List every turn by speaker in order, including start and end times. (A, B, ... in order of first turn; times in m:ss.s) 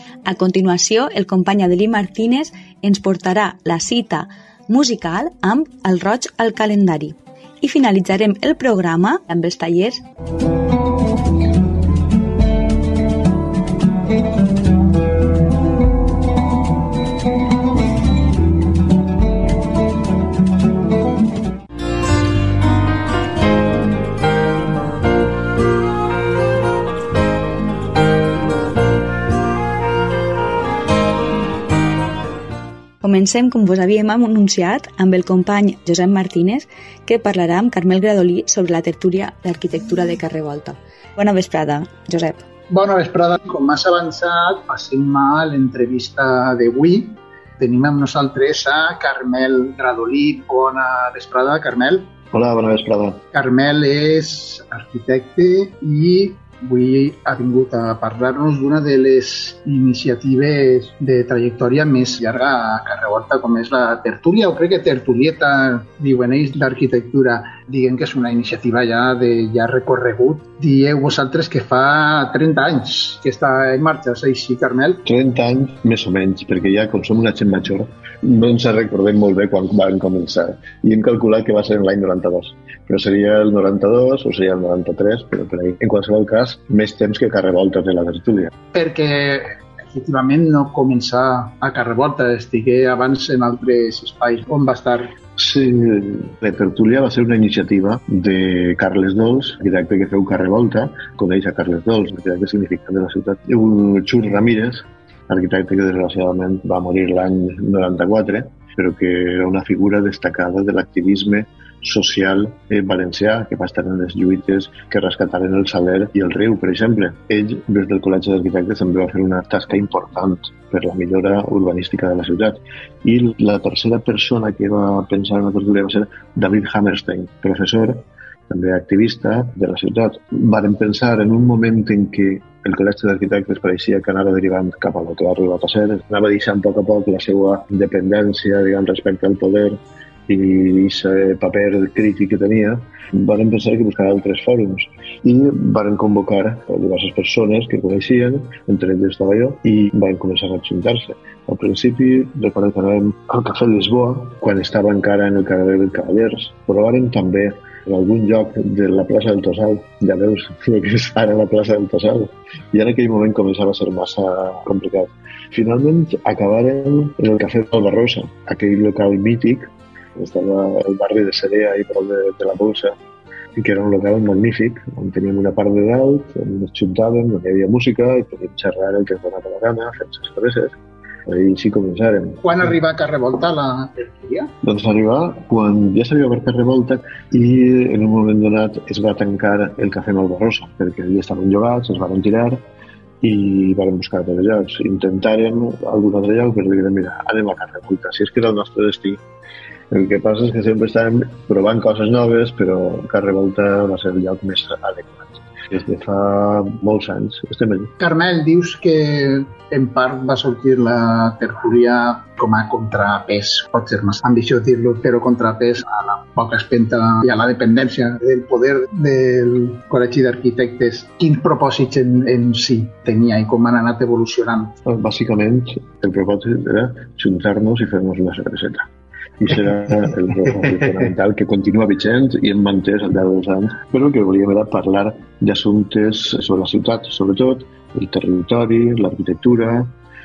0:00.2-0:10.0 A
0:33.0-0:42.4 A
0:42.7-0:52.1 B
0:52.3-0:53.2 C
0:53.3-1:15.0 B
1:15.0-1:28.5 C
1:28.7-1:35.2 B
1:35.3-2:52.9 C
2:53.6-3:00.7 C
3:01.3-3:02.5 C
3:02.4-3:04.5 B
3:04.6-3:12.6 C
3:13.2-3:19.2 C
3:19.9-3:27.9 C
3:28.0-3:44.7 B
3:44.8-3:48.9 C
3:49.4-3:59.9 C